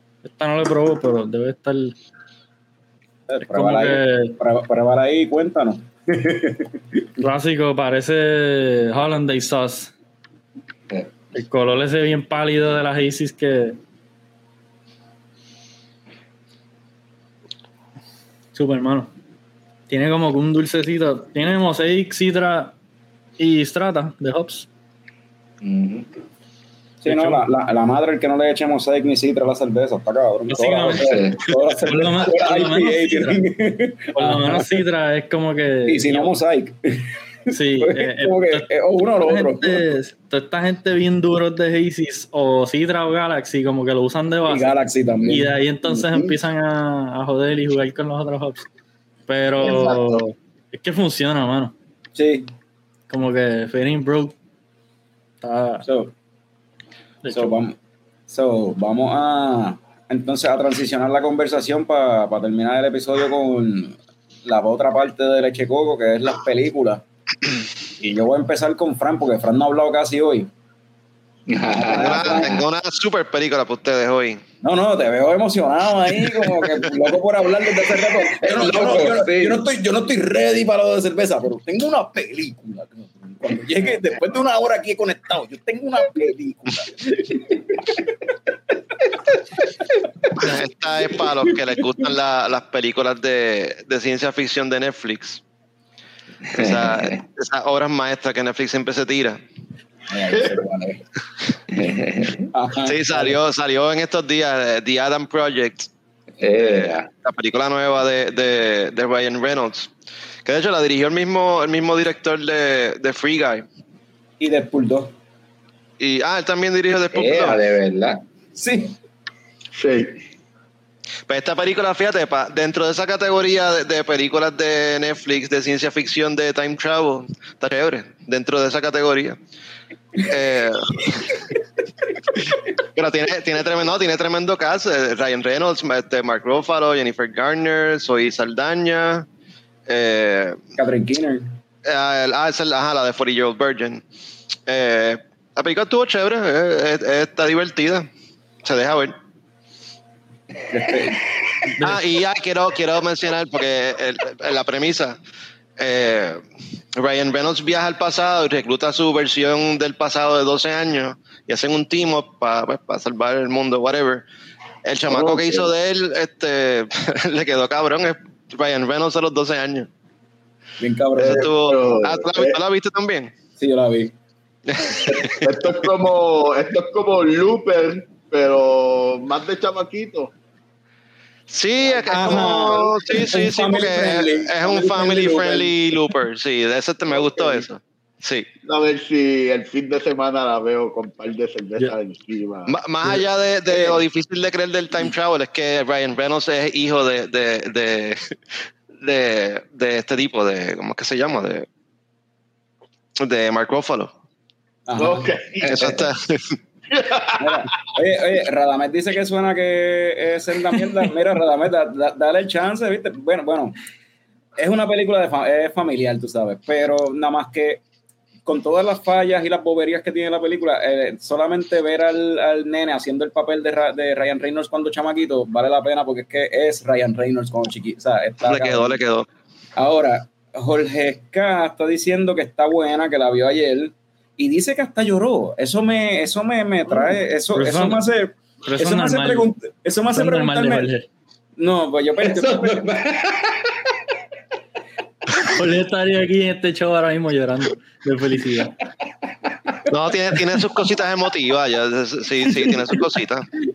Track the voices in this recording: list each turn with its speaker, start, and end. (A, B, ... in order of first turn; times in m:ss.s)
0:00.2-0:01.9 A
0:03.3-0:07.0 B
0:03.4-0:04.4 A
0:07.2-0:09.9 A
0:11.3-0:13.8 A
0:18.5-0:19.1 A
0:19.9-0:22.7 A
0:23.4-0:24.7 A
0:25.6-0:26.1 C
0:27.0-0:34.8 B
0:27.0-0:27.4 A
0:30.5-0:31.1 A
0:31.0-0:31.5 C
0:31.8-0:33.4 A
0:34.2-0:36.4 A
0:35.8-0:40.0 B
0:37.5-0:38.7 A
0:39.2-0:44.7 A
0:44.5-0:45.5 B
0:45.2-0:48.7 A
0:45.8-0:46.4 D
0:49.3-0:51.7 A
0:49.6-0:50.2 D
0:52.1-0:52.5 B
0:53.1-0:54.3 A
0:55.4-0:55.8 A
0:55.8-0:56.1 B
0:57.2-0:57.5 A
0:57.3-0:57.8 B
0:58.3-1:07.0 B
1:08.0-1:10.5 B
1:11.5-1:12.6 C
1:11.7-1:12.6 B
1:11.9-1:14.4 E
1:14.6-1:28.1 B
1:18.1-1:19.7 C
1:30.4-1:35.4 E
1:36.4-1:37.2 C
1:36.5-1:39.4 E
1:40.1-1:41.0 B
1:41.7-1:42.4 C
1:42.5-1:43.4 B
1:42.8-1:45.9 E
1:46.4-1:47.1 C
1:46.6-1:49.9 E
1:50.4-1:53.6 E
1:54.4-1:55.1 B
1:56.0-1:57.6 E
1:57.1-1:58.2 C
1:58.5-1:58.9 B
1:59.7-2:00.2 D
2:01.3-2:09.4 E
2:10.2-2:11.4 E
2:12.9-2:19.2 E
2:19.9-2:20.6 E
2:20.8-2:21.6 B
2:21.8-2:24.0 E
2:24.6-2:28.1 E
2:28.6-2:29.1 E
2:30.7-2:31.3 B
2:31.8-2:35.2 E
2:35.8-2:36.4 E
2:36.9-2:44.2 E
2:44.8-2:49.9 E
2:45.1-2:45.7 D
2:50.8-2:51.5 B
2:51.2-2:52.6 D
2:51.2-2:53.3 E
2:53.6-2:54.1 B
2:54.7-2:55.4 E
2:55.1-3:00.3 D
3:01.5-3:08.5 E
3:01.8-3:02.9 D
3:02.1-3:05.7 B
3:07.1-3:07.6 D
3:08.7-3:12.7 D
3:12.7-3:21.6 E
3:23.2-3:24.1 E
3:24.9-3:25.3 B
3:25.0-3:25.9 D
3:25.6-3:26.5 E
3:26.9-3:27.5 D
3:27.4-3:33.8 B
3:34.6-3:37.8 B
3:38.4-3:49.0 B
3:48.4-3:49.2 E
3:49.8-4:00.9 B
3:57.5-3:58.0 A
3:58.6-3:59.5 A
4:00.1-4:01.1 A
4:01.6-4:02.8 B
4:02.2-4:03.9 C
4:05.5-4:08.8 A
4:09.9-4:13.5 E